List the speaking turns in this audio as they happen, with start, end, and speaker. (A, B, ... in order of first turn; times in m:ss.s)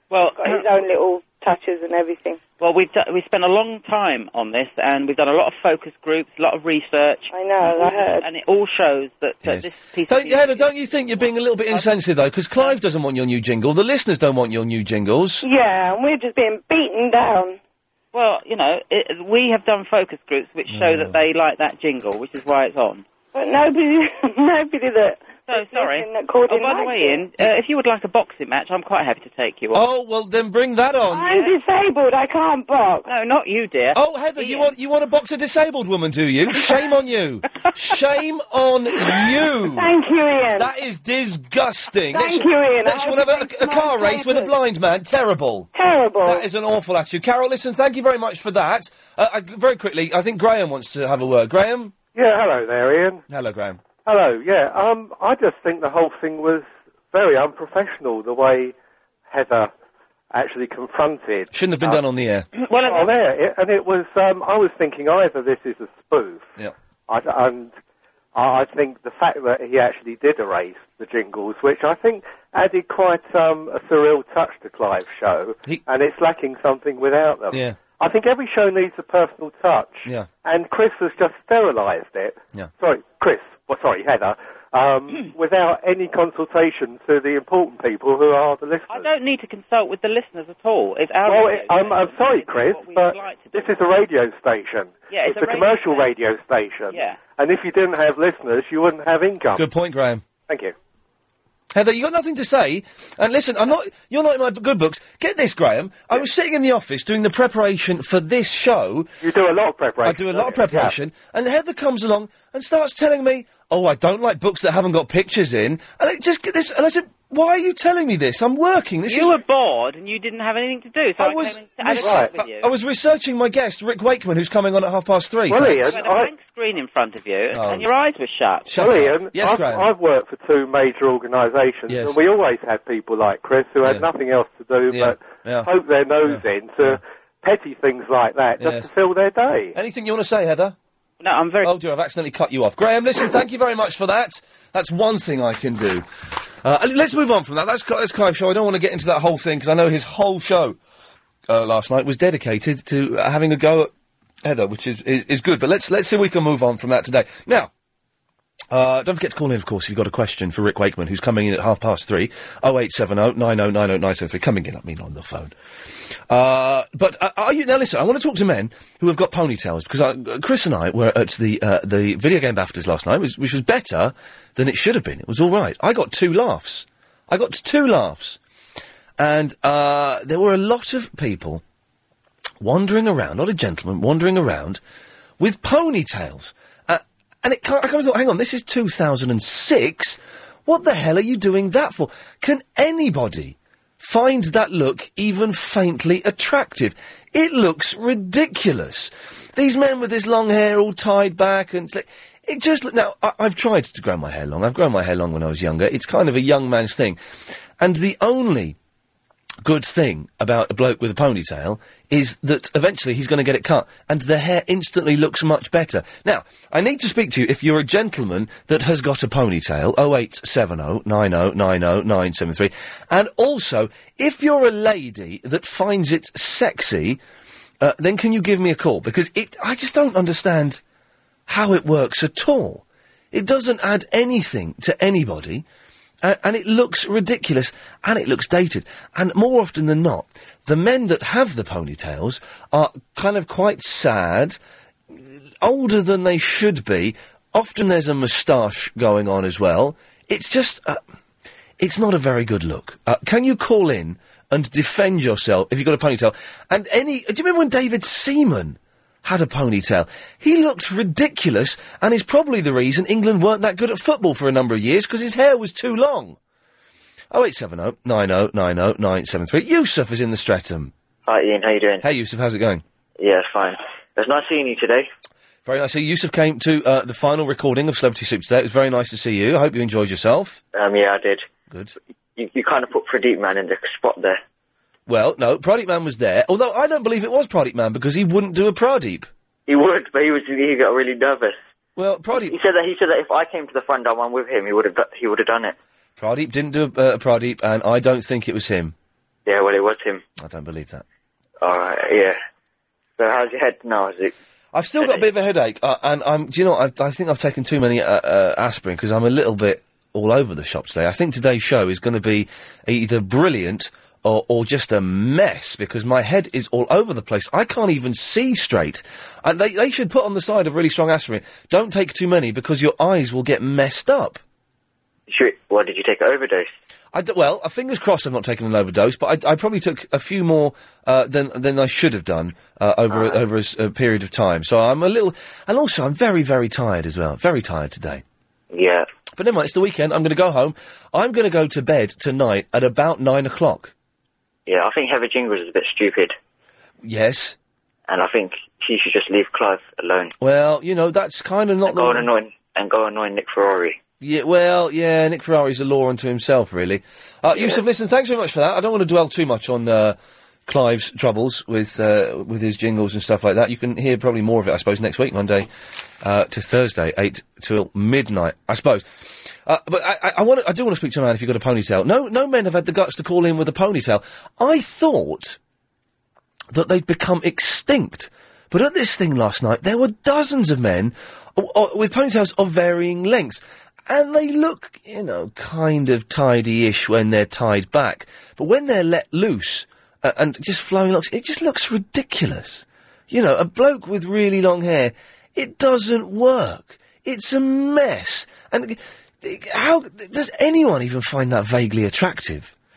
0:00.1-0:00.7 A
0:00.4-0:02.4 B
0:02.6-0:11.9 A
0:07.3-0:08.3 B
0:09.4-0:15.4 C
0:15.4-0:17.6 B
0:18.1-0:23.0 A
0:20.7-0:21.2 C
0:23.3-0:27.2 B
0:25.5-0:29.9 A
0:29.7-0:31.3 C
0:31.1-0:33.1 B
0:33.1-0:34.7 A
0:33.9-0:39.9 C
0:39.7-0:40.7 B
0:40.6-0:45.7 C
0:42.1-0:44.5 B
0:45.7-0:46.4 B
0:46.2-0:51.9 C
0:52.1-0:53.2 D
0:53.3-0:53.8 C
0:54.0-0:58.7 D
0:59.3-0:59.7 D
1:00.3-1:02.0 D
1:01.5-1:02.5 C
1:02.6-1:03.1 A
1:02.8-1:06.5 D
1:07.1-1:07.7 D
1:08.4-1:29.1 D
1:17.5-1:17.8 C
1:28.9-1:33.7 A
1:31.2-1:39.7 D
1:35.1-1:36.1 A
1:36.9-1:37.2 A
1:39.6-1:40.2 C
1:40.5-1:40.7 D
1:41.7-1:49.1 C
1:49.2-1:51.0 D
1:50.0-1:59.4 C
1:59.1-2:02.7 A
2:01.2-2:06.0 C
2:02.0-2:02.3 D
2:05.5-2:06.3 D
2:05.9-2:08.8 A
2:07.5-2:07.9 C
2:08.7-2:09.9 C
2:08.8-2:19.8 D
2:11.9-2:12.2 C
2:14.9-2:15.7 C
2:16.3-2:17.0 C
2:18.6-2:18.9 C
2:19.8-2:20.8 C
2:21.2-2:21.7 A
2:21.6-2:26.1 C
2:26.6-2:30.8 C
2:31.5-2:33.9 C
2:34.4-2:37.7 C
2:38.7-2:45.6 C
2:46.3-2:58.4 C
2:59.2-3:01.6 C
3:02.6-3:04.8 C
3:05.4-3:27.2 C
3:27.8-3:28.8 C
3:29.6-3:47.2 C
3:47.8-3:50.8 C
3:51.5-3:55.6 C
3:56.2-4:04.6 C
4:05.1-4:11.0 C
4:11.8-4:26.4 C
4:27.3-4:30.9 C
4:31.3-4:32.1 E
4:32.0-4:32.8 C
4:33.2-4:35.1 E
4:35.6-4:40.6 C
4:40.7-4:41.4 E
4:41.7-4:42.0 C
4:42.4-4:44.4 E
4:45.1-4:49.3 C
4:49.7-4:51.6 E
4:52.0-4:52.6 C
4:52.4-4:55.8 E
4:56.2-4:59.0 C
4:59.5-5:00.2 E
5:00.4-5:01.0 C
5:01.6-5:02.4 E
5:03.2-5:04.3 E
5:04.7-5:24.4 C
5:05.0-5:05.3 E
5:25.3-5:26.7 E
5:27.1-5:38.2 C
5:38.7-5:39.1 E
5:39.4-5:43.9 C
5:44.7-5:46.3 E
5:47.0-5:47.6 C
5:48.1-5:50.3 E
5:50.4-5:52.3 C
5:51.9-5:54.0 E
5:54.2-6:05.7 C
6:06.2-6:09.1 C
6:09.6-6:15.6 C
6:16.7-6:42.7 C